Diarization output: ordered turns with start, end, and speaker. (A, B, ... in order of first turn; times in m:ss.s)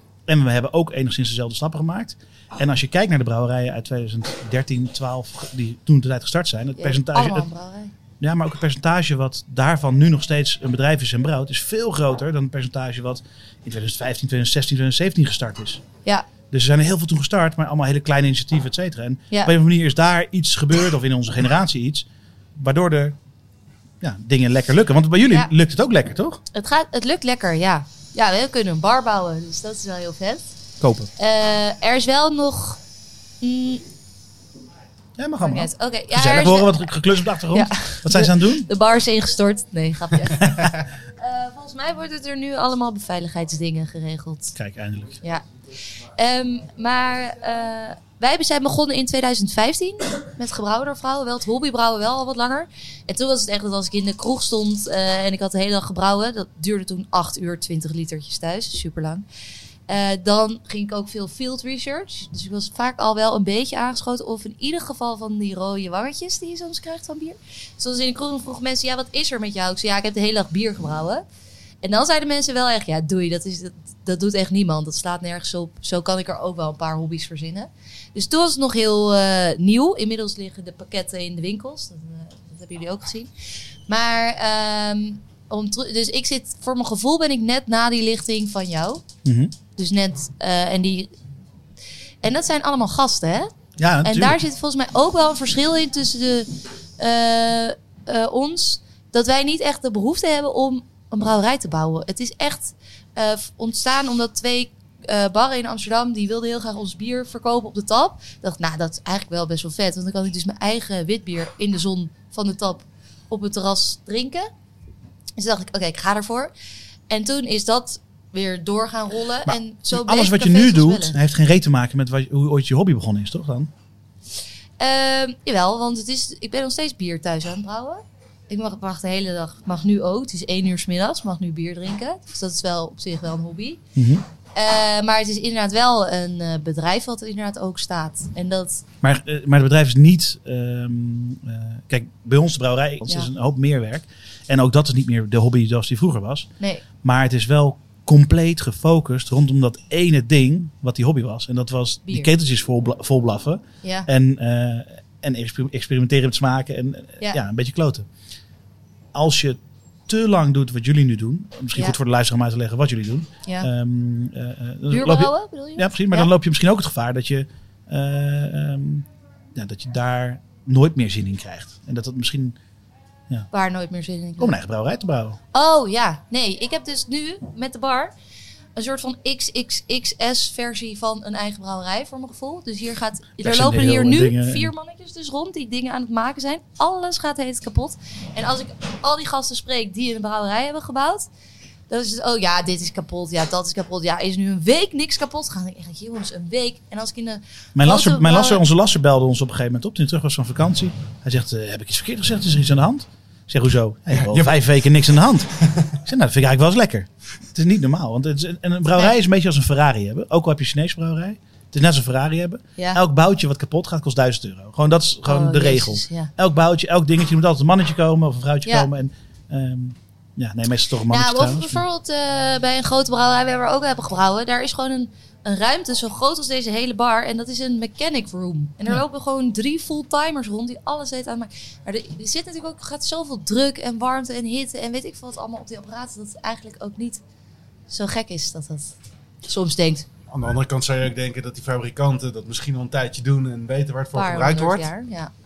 0:00.3-0:07.5 A
0:06.8-0:07.9 B
0:08.2-0:15.8 A
0:16.5-0:23.2 A
0:24.0-0:26.4 A
0:26.5-0:30.6 B
0:30.8-0:31.1 A
0:31.2-0:32.8 B
0:33.4-0:33.8 B
0:35.2-0:38.7 A
0:35.4-0:44.5 B
0:40.4-0:40.6 A
0:44.5-0:45.1 A
0:46.2-0:59.2 B
0:59.9-1:11.2 B
1:11.8-1:23.3 B
1:23.9-1:29.0 B
1:29.2-1:29.5 A
1:29.8-1:31.1 B
1:32.2-1:33.5 B
1:33.8-1:34.4 A
1:34.0-1:54.5 B
1:55.4-1:56.5 B
1:57.1-2:01.2 B
1:59.5-2:03.7 A
2:04.8-2:13.8 B
2:14.0-2:14.2 A
2:14.5-2:18.8 B
2:19.0-2:26.5 A
2:27.0-2:38.1 A
2:33.8-2:34.1 B
2:39.1-2:52.6 A
2:44.9-2:46.3 B
2:53.5-2:54.6 B
2:54.4-2:55.4 A
2:55.5-2:58.1 B
2:58.8-3:11.3 B
3:03.4-3:04.7 A
3:11.9-3:18.6 B
3:17.8-3:41.8 A
3:24.1-3:24.6 C
3:35.3-3:36.3 B
3:41.1-3:57.2 B
3:57.9-4:00.0 B
4:00.3-4:04.9 C
4:04.1-4:05.3 B